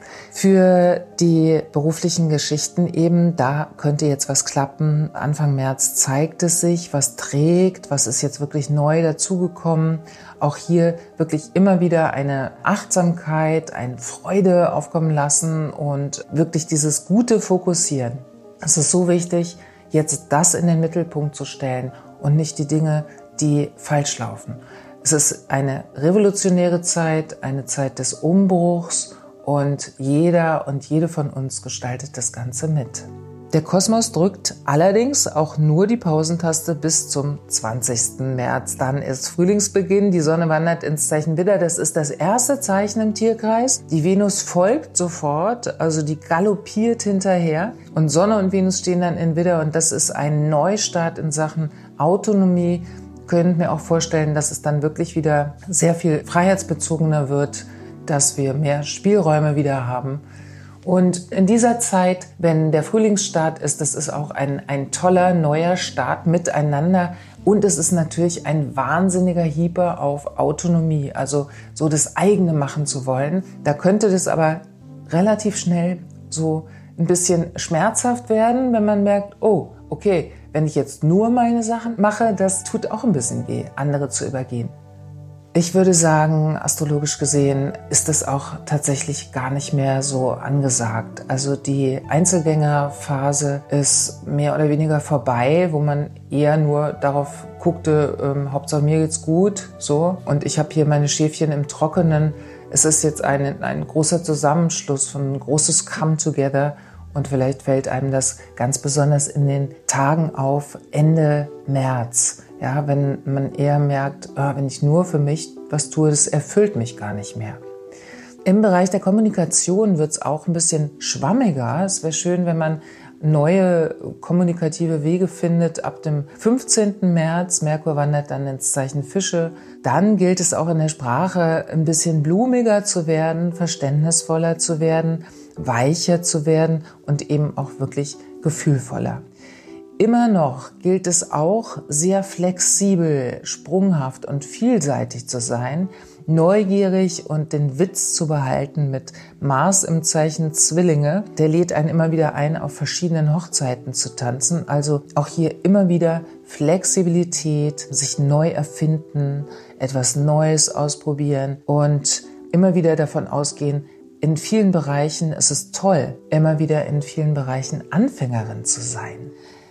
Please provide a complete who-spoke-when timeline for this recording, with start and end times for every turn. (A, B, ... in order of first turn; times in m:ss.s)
0:00.3-1:00.2 A
1:00.8-1:24.7 A
1:25.5-1:57.6 A
1:58.4-2:19.2 A
2:20.0-2:49.3 A